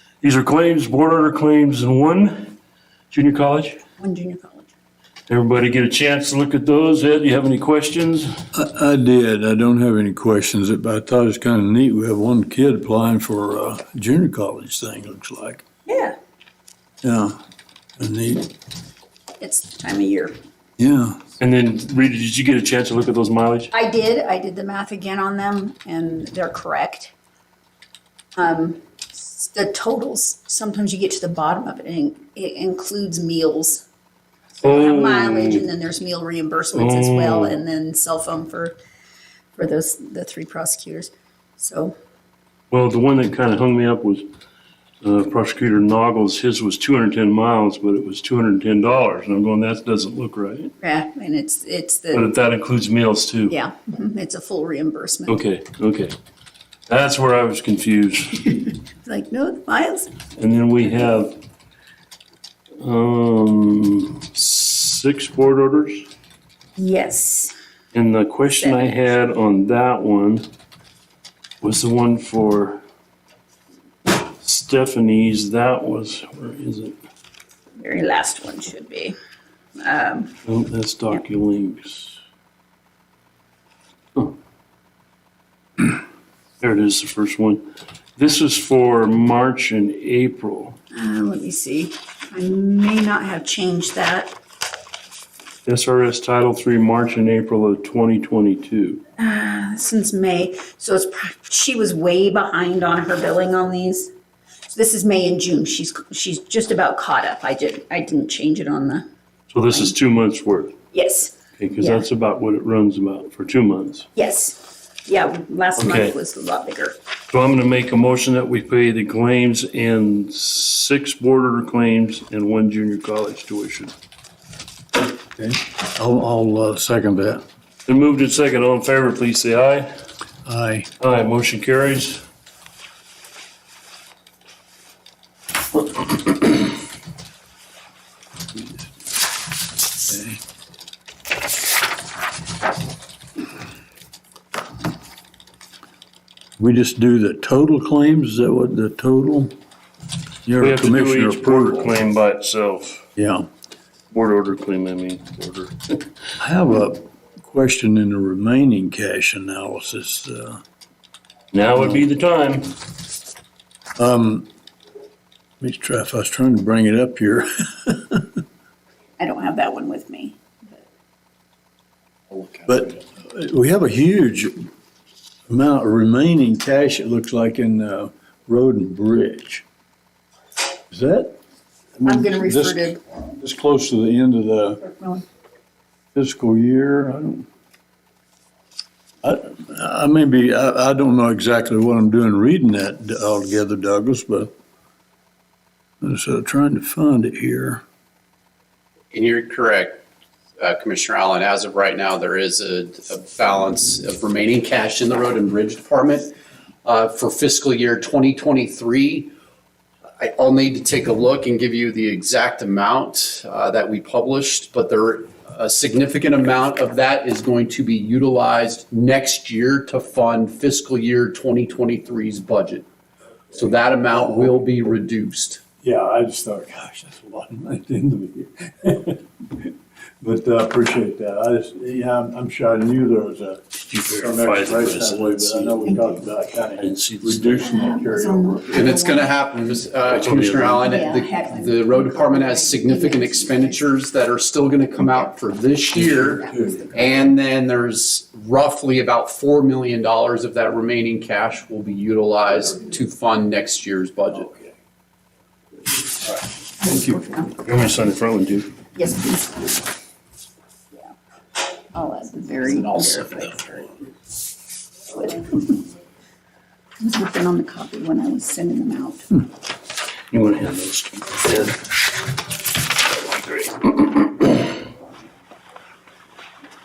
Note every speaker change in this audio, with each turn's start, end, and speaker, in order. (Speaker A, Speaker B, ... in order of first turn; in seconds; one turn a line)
Speaker A: 0.2-2.6
Speaker A: 3.1-3.8
Speaker B: 4.0-4.7
Speaker A: 5.3-8.3
Speaker C: 8.5-15.6
Speaker B: 15.9-16.2
Speaker C: 17.0-17.4
Speaker C: 18.0-18.5
Speaker B: 19.4-20.4
Speaker C: 20.8-21.2
Speaker A: 21.4-23.7
Speaker B: 23.7-27.1
Speaker B: 28.4-33.9
Speaker B: 34.6-38.8
Speaker A: 34.6-35.7
Speaker A: 36.7-37.6
Speaker B: 39.5-42.0
Speaker A: 42.7-44.3
Speaker A: 45.0-50.7
Speaker B: 50.8-52.3
Speaker A: 52.1-53.5
Speaker B: 53.5-55.4
Speaker A: 55.3-56.1
Speaker A: 56.9-58.5
Speaker B: 58.4-60.1
Speaker A: 60.4-61.4
Speaker A: 62.8-66.1
Speaker B: 66.8-67.5
Speaker A: 67.9-70.5
Speaker B: 68.6-69.0
Speaker A: 71.6-72.8
Speaker A: 74.1-77.0
Speaker B: 77.8-79.1
Speaker B: 79.8-80.4
Speaker A: 80.5-82.2
Speaker A: 86.6-87.6
Speaker A: 88.2-90.8
Speaker B: 90.9-94.4
Speaker A: 95.7-99.0
Speaker B: 99.2-104.1
Speaker B: 104.7-109.1
Speaker A: 109.5-110.7
Speaker B: 110.9-112.0
Speaker A: 111.6-114.1
Speaker B: 114.2-117.0
Speaker A: 115.8-116.2
Speaker A: 117.3-123.9
Speaker C: 125.4-127.4
Speaker A: 127.9-129.9
Speaker C: 130.4-130.9
Speaker A: 131.0-132.2
Speaker C: 140.1-140.4
Speaker C: 146.6-149.6
Speaker C: 150.4-151.9
Speaker A: 150.6-153.1
Speaker C: 153.2-153.5
Speaker A: 154.1-156.1
Speaker C: 156.4-160.6
Speaker A: 161.5-162.8
Speaker C: 164.0-164.5
Speaker C: 165.6-168.4
Speaker B: 169.2-170.8
Speaker D: 172.3-172.6
Speaker C: 172.7-174.7
Speaker C: 175.5-179.7
Speaker C: 180.9-181.4
Speaker C: 182.0-184.8
Speaker B: 182.1-183.0
Speaker B: 184.8-185.2
Speaker C: 186.2-187.5
Speaker C: 189.2-194.5
Speaker C: 196.0-197.8
Speaker D: 199.1-200.0
Speaker D: 200.6-209.3
Speaker D: 210.2-222.9
Speaker D: 223.5-225.6
Speaker C: 225.8-238.9
Speaker A: 234.0-235.9
Speaker B: 235.8-236.2
Speaker A: 236.8-237.7
Speaker B: 237.6-239.3
Speaker D: 238.7-254.5
Speaker A: 240.1-240.9
Speaker B: 240.8-243.9
Speaker C: 246.0-247.0
Speaker B: 246.2-247.3
Speaker B: 256.8-257.5
Speaker A: 257.6-258.7
Speaker B: 258.9-259.7
Speaker B: 261.9-263.9
Speaker B: 265.1-265.8
Speaker B: 267.0-269.3
Speaker A: 270.3-271.9
Speaker A: 273.0-274.2